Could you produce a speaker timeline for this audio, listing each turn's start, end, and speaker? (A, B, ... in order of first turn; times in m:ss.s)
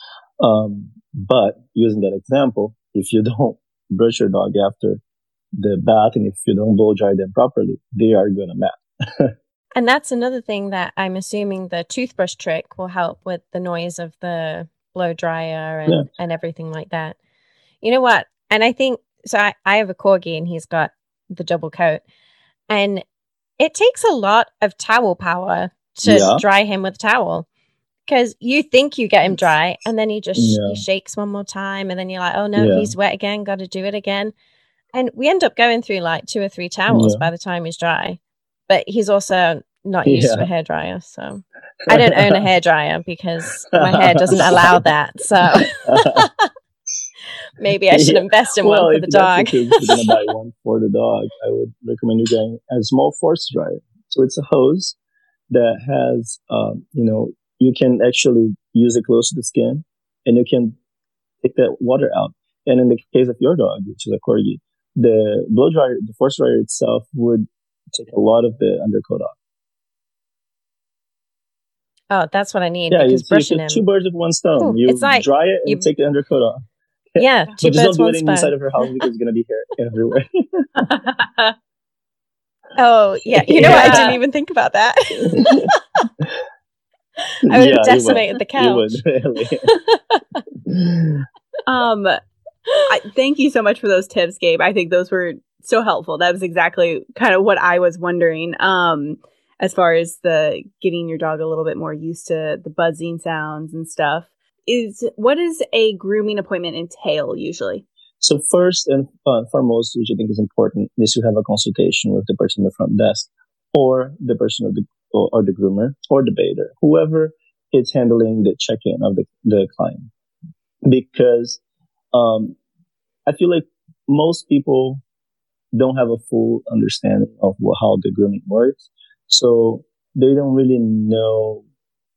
0:00.4-0:05.0 A
0:05.6-0:09.3 A
0:09.7-0:17.2 B
0:17.8-0:22.0 B
0:22.7-0:23.0 B
0:23.6-0:27.5 B
0:26.0-0:26.4 A
0:28.1-0:34.3 B
0:30.3-0:30.8 A
0:32.6-0:32.9 A
0:34.9-0:46.5 B
0:36.9-0:37.3 A
0:40.0-0:40.5 A
0:41.9-0:42.4 A
0:43.7-0:44.8 A
0:45.5-0:46.3 A
0:47.6-0:50.0 B
0:47.9-0:55.0 A
0:55.5-1:00.7 A
1:01.4-1:09.3 A
1:12.1-1:13.8 B
1:12.9-1:16.6 A
1:14.6-1:15.9 B
1:17.2-1:20.9 A
1:17.2-1:18.5 B
1:20.9-1:21.5 C
1:22.8-1:26.0 B
1:23.3-1:24.1 A
1:23.5-1:24.2 C
1:25.2-1:25.7 A
1:27.5-1:29.7 A
1:27.5-1:29.0 B
1:29.6-1:30.4 B
1:30.7-1:31.2 A
1:31.6-1:32.2 C
1:32.9-1:47.8 C
1:48.2-2:00.1 A
2:00.8-2:01.6 A
2:02.1-2:02.6 A
2:03.3-2:05.0 A
2:05.7-2:11.6 A